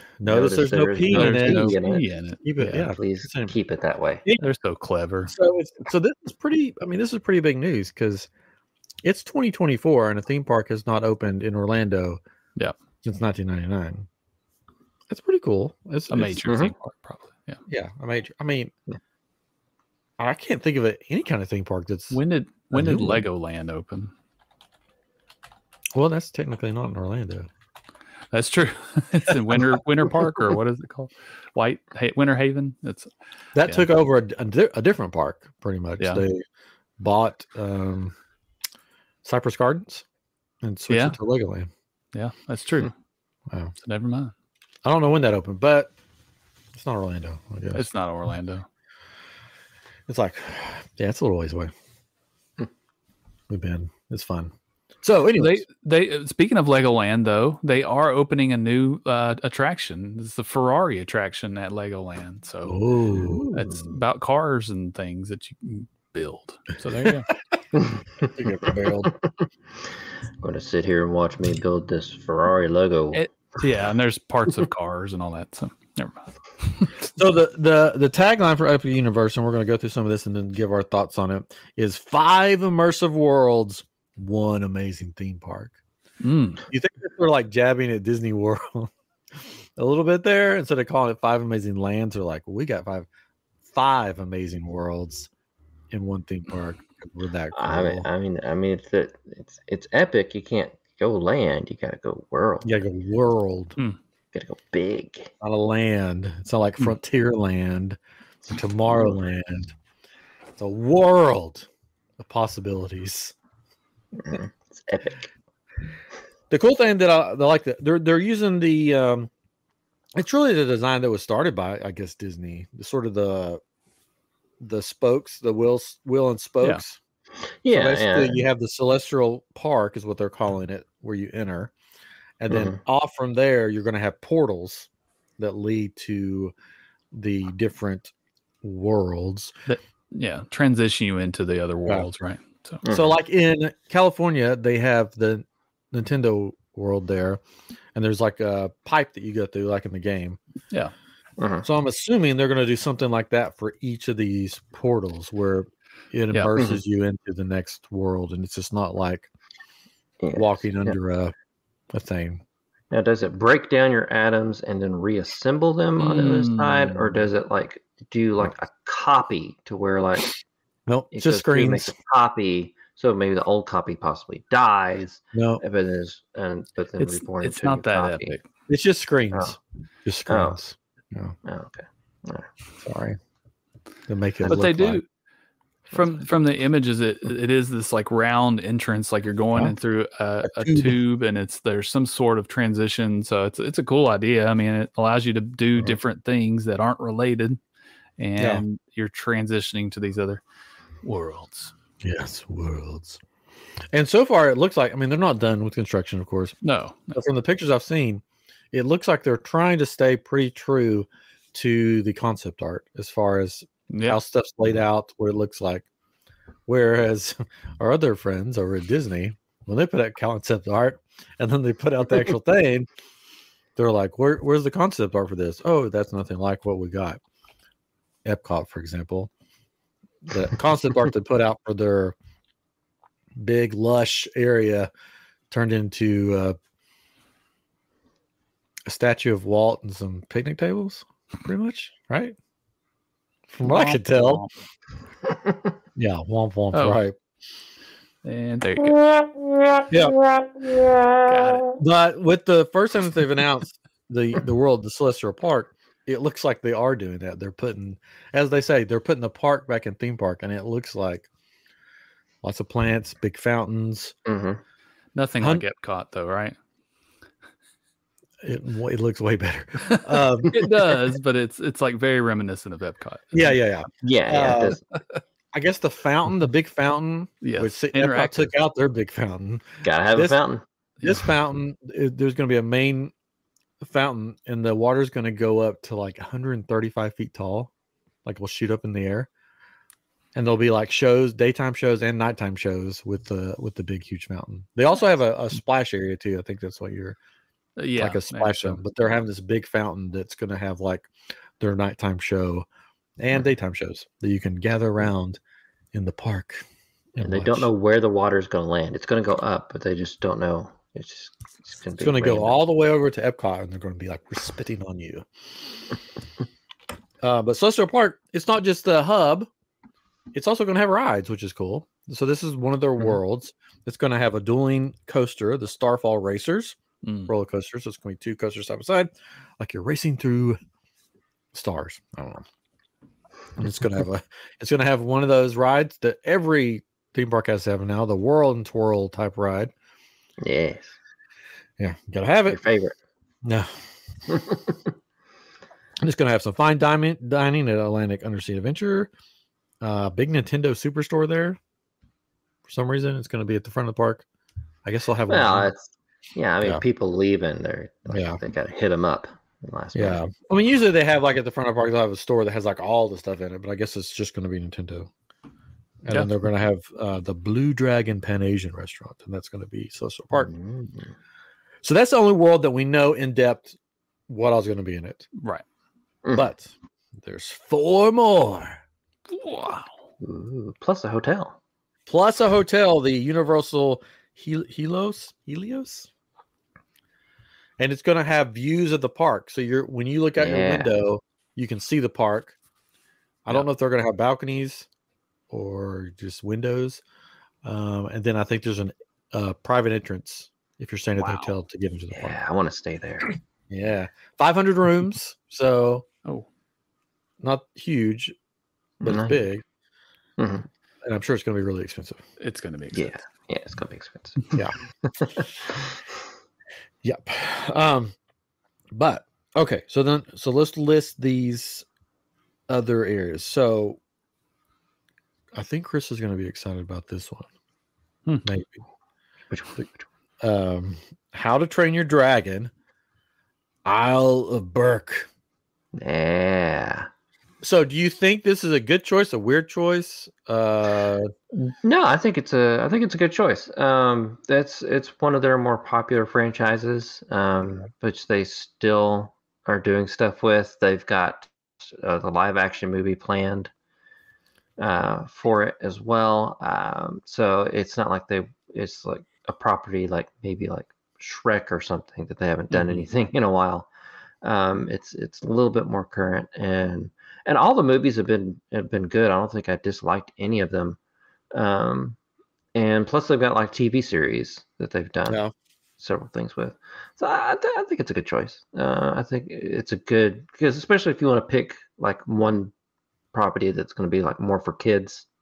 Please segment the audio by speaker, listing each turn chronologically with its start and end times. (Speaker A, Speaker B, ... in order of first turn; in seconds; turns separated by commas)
Speaker A: 0.2-1.8, Speaker B: 0.3-2.1, Speaker C: 1.1-2.9, Speaker A: 2.4-3.5, Speaker B: 2.9-4.3, Speaker C: 4.4-5.3, Speaker A: 5.3-8.3, Speaker A: 9.0-12.2, Speaker A: 13.0-14.1, Speaker A: 15.1-16.6, Speaker C: 16.1-17.6, Speaker B: 16.4-16.7, Speaker A: 17.7-18.7, Speaker A: 20.2-22.2, Speaker C: 22.1-24.1, Speaker A: 22.7-23.3, Speaker A: 25.9-27.5, Speaker C: 28.3-33.9, Speaker A: 29.5-30.5, Speaker A: 33.5-36.4, Speaker A: 37.0-38.2, Speaker A: 39.2-40.0, Speaker A: 40.6-41.7, Speaker C: 40.9-41.2, Speaker C: 42.1-42.9, Speaker A: 43.5-43.7, Speaker C: 43.8-44.3, Speaker A: 44.9-45.9, Speaker A: 46.7-47.9, Speaker C: 47.7-48.7, Speaker A: 50.1-51.7, Speaker A: 53.5-55.6, Speaker C: 55.4-62.8, Speaker A: 62.7-63.6, Speaker B: 63.1-63.8, Speaker C: 63.5-67.3, Speaker B: 67.7-69.2, Speaker A: 68.2-69.1, Speaker B: 70.4-73.2, Speaker C: 73.1-77.0, Speaker A: 77.1-85.8, Speaker C: 86.2-86.6, Speaker A: 86.7-88.9, Speaker A: 89.8-93.1, Speaker A: 93.7-95.3, Speaker A: 95.9-98.1, Speaker B: 97.5-102.7, Speaker A: 102.6-103.8, Speaker B: 104.3-105.3, Speaker A: 105.4-109.8, Speaker A: 110.6-111.7, Speaker A: 112.2-113.3, Speaker B: 114.2-115.2, Speaker A: 116.5-119.3, Speaker A: 120.2-123.6, Speaker A: 124.6-127.0, Speaker B: 127.5-128.4, Speaker A: 127.7-131.7, Speaker A: 132.4-136.5, Speaker B: 132.5-132.8, Speaker A: 137.1-139.5, Speaker C: 139.7-142.8, Speaker B: 142.8-143.1, Speaker A: 142.9-147.4, Speaker A: 147.9-150.4, Speaker B: 151.4-151.7, Speaker A: 151.7-159.3, Speaker B: 160.2-161.0, Speaker A: 160.3-161.3, Speaker A: 161.9-162.4, Speaker B: 162.9-170.3, Speaker C: 166.0-167.0, Speaker A: 170.9-171.9, Speaker B: 171.1-178.4, Speaker A: 175.3-175.6, Speaker C: 177.0-178.4, Speaker A: 178.7-181.4, Speaker B: 180.3-180.6, Speaker B: 181.4-182.5, Speaker A: 182.8-183.2, Speaker A: 184.1-185.0, Speaker C: 184.5-185.1, Speaker C: 185.9-197.6, Speaker A: 190.6-191.0, Speaker C: 198.2-200.4, Speaker A: 198.4-198.7, Speaker C: 201.0-201.7, Speaker A: 202.0-203.2, Speaker A: 203.9-206.6, Speaker C: 206.6-207.2, Speaker A: 207.1-215.9, Speaker C: 213.9-214.2, Speaker A: 216.7-222.9, Speaker A: 223.8-227.2, Speaker A: 228.2-229.3, Speaker A: 230.3-232.2, Speaker A: 233.4-234.9, Speaker A: 235.5-236.6, Speaker A: 238.9-242.4, Speaker A: 243.5-244.4, Speaker C: 243.7-244.5, Speaker A: 246.0-247.2, Speaker C: 246.7-247.0, Speaker C: 248.2-249.0, Speaker A: 249.9-250.3, Speaker C: 251.2-251.7, Speaker A: 251.8-261.3, Speaker A: 262.4-264.1, Speaker B: 264.3-264.6, Speaker C: 265.1-266.6, Speaker A: 268.4-271.0, Speaker C: 269.9-273.6, Speaker A: 273.3-274.8, Speaker B: 274.0-274.8, Speaker A: 275.5-280.4, Speaker C: 277.4-278.5, Speaker B: 279.8-280.6, Speaker C: 281.0-281.3, Speaker A: 281.0-283.1, Speaker A: 283.8-287.7, Speaker A: 288.2-289.3, Speaker A: 290.4-297.2, Speaker C: 297.8-298.8, Speaker A: 298.0-301.1, Speaker A: 301.6-302.7, Speaker A: 303.2-305.4, Speaker A: 305.9-306.6, Speaker A: 307.2-307.7, Speaker B: 307.2-312.6, Speaker A: 312.0-315.3, Speaker A: 317.2-319.5, Speaker A: 320.3-330.6, Speaker C: 327.0-327.3, Speaker A: 331.5-332.4, Speaker A: 333.6-339.7, Speaker B: 340.4-341.0, Speaker A: 341.8-342.6, Speaker B: 342.5-343.0, Speaker A: 343.4-343.7, Speaker B: 344.3-344.8, Speaker A: 346.0-349.1, Speaker A: 349.8-351.6, Speaker A: 352.7-354.2, Speaker A: 354.9-355.7, Speaker B: 355.3-360.2, Speaker A: 358.1-358.4, Speaker A: 359.9-365.1, Speaker A: 366.0-370.5, Speaker B: 370.4-371.1, Speaker A: 371.8-373.8, Speaker A: 374.3-375.3, Speaker C: 375.4-375.6, Speaker A: 376.3-378.8, Speaker C: 379.3-379.9, Speaker B: 380.2-381.6, Speaker A: 382.1-386.1, Speaker A: 387.8-392.6, Speaker B: 390.4-390.9, Speaker A: 393.5-394.9, Speaker A: 395.5-397.0, Speaker A: 397.6-402.4, Speaker C: 401.2-401.5, Speaker B: 402.1-403.4, Speaker A: 403.7-406.1, Speaker A: 407.4-408.4, Speaker B: 409.0-409.4, Speaker A: 409.0-409.6, Speaker B: 410.4-410.7, Speaker A: 411.0-412.2, Speaker C: 412.4-413.2, Speaker B: 412.9-416.0, Speaker A: 417.0-418.1, Speaker A: 418.9-421.9, Speaker A: 422.7-424.0, Speaker A: 425.5-427.5, Speaker A: 428.4-428.8, Speaker B: 429.5-430.1, Speaker A: 430.4-432.7, Speaker A: 433.9-435.3, Speaker B: 435.9-437.1, Speaker A: 437.6-441.3, Speaker B: 441.8-453.7, Speaker B: 454.8-463.9, Speaker B: 464.4-471.0, Speaker B: 471.5-472.2, Speaker B: 472.8-475.4, Speaker A: 475.3-475.5, Speaker B: 476.0-482.7, Speaker B: 483.3-485.3